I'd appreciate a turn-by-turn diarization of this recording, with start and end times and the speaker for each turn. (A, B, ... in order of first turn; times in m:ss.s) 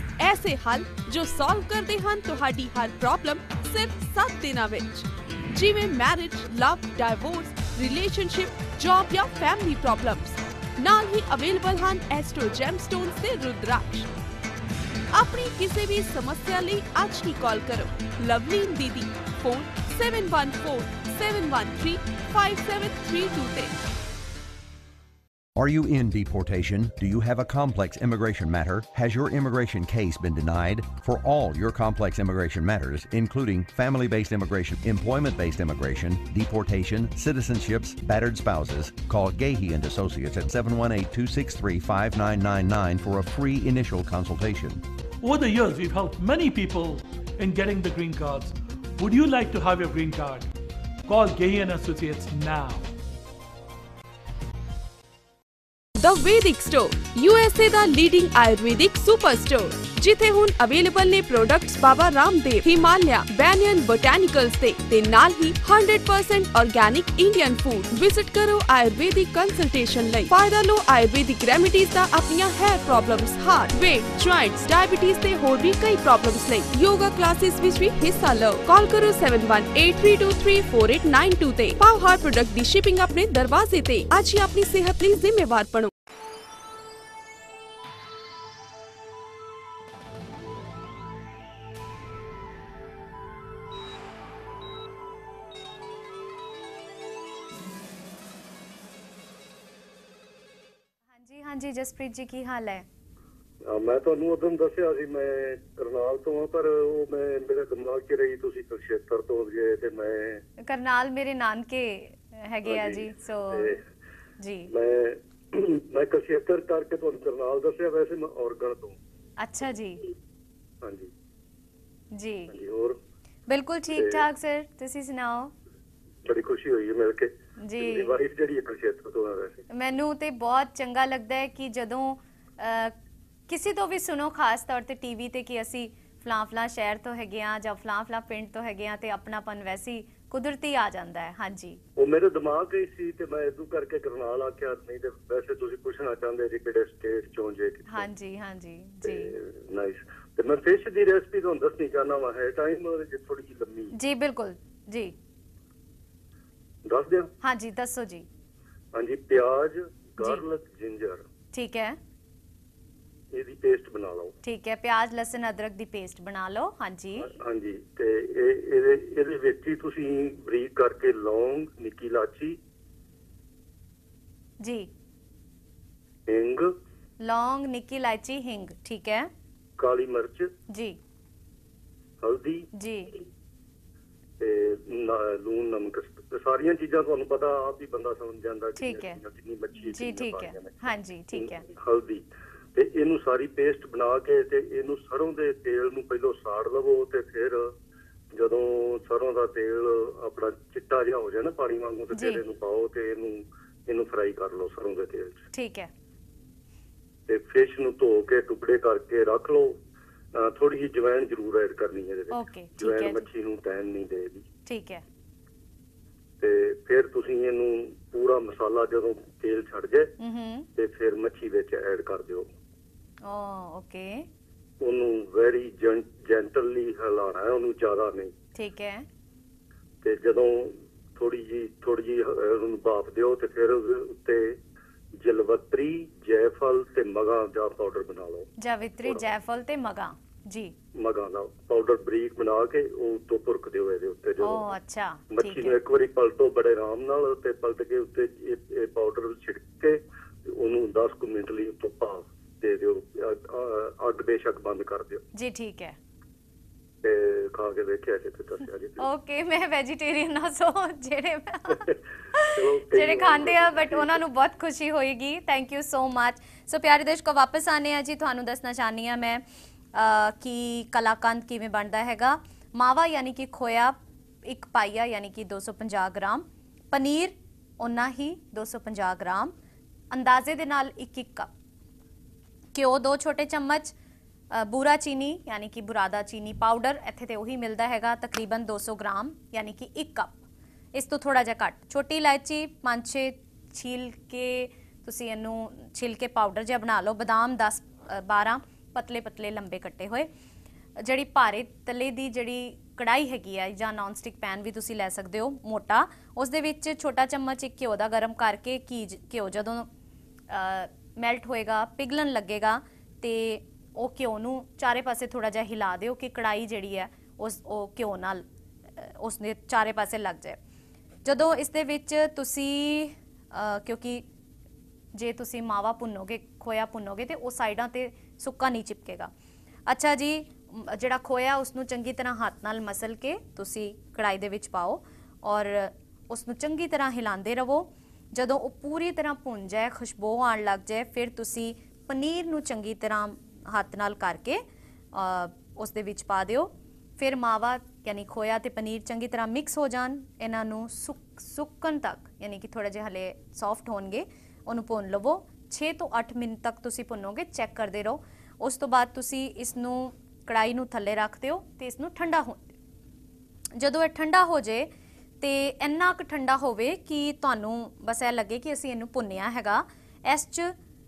0:00.2-0:14.1 A
0:15.1-0:23.8 A
0:25.6-0:44.8 B
0:45.2-0:50.5 C
0:51.1-0:52.8 C
0:56.0-1:25.9 A
1:41.1-1:42.9 D
1:43.7-1:50.4 E
1:50.6-1:53.8 D
1:52.7-1:53.8 E
1:54.4-1:54.7 D
1:54.7-1:59.0 E
1:59.4-2:00.0 D
2:00.8-2:01.1 E
2:02.1-2:02.5 D
2:02.5-2:03.0 E
2:03.5-2:05.5 D
2:03.9-2:04.2 E
2:06.3-2:09.6 E
2:07.6-2:08.1 D
2:09.7-2:13.0 D
2:13.5-2:21.8 D
2:22.0-2:28.1 E
2:27.9-2:29.3 D
2:29.0-2:33.9 E
2:33.9-2:35.2 D
2:36.9-2:37.3 E
2:37.4-2:38.3 D
2:38.9-2:41.2 E
2:41.5-2:42.0 D
2:43.3-2:44.3 E
2:44.4-2:47.3 D
2:47.2-2:52.6 E
2:54.6-2:54.9 D
2:56.3-2:56.7 E
2:57.2-2:59.3 D
2:59.8-3:00.5 E
3:00.7-3:01.0 D
3:02.2-3:02.7 E
3:02.8-3:03.1 D
3:04.4-3:10.8 E
3:08.8-3:09.2 D
3:09.9-3:11.7 D
3:11.3-3:17.7 E
3:18.3-3:25.4 E
3:22.1-3:22.4 D
3:25.5-3:25.9 D
3:27.3-3:29.8 E
3:30.4-3:34.4 E
3:32.3-3:33.2 D
3:34.7-3:35.0 D
3:36.4-3:40.1 E
3:40.2-3:40.7 D
3:40.8-3:42.5 E
3:43.2-3:44.3 D
3:44.8-3:48.3 E
3:48.6-3:49.1 D
3:50.0-3:54.6 E
3:55.2-3:58.5 E
3:58.6-4:00.8 D
4:01.0-4:04.7 E
4:04.4-4:05.8 D
4:05.3-4:15.2 E
4:15.3-4:16.0 D
4:17.0-4:19.1 E
4:19.0-4:21.8 D
4:22.4-4:29.4 D
4:22.5-4:24.2 E
4:29.9-4:39.5 D
4:40.1-4:41.5 D
4:42.7-4:43.9 D
4:44.5-4:50.4 D
4:50.9-5:00.3 D
5:01.0-5:09.9 D
5:10.5-5:18.4 D
5:19.0-5:20.6 D
5:21.2-5:24.2 D
5:25.1-5:29.3 D
5:29.9-6:02.8 D
6:03.8-6:04.9 D
6:05.4-6:10.8 D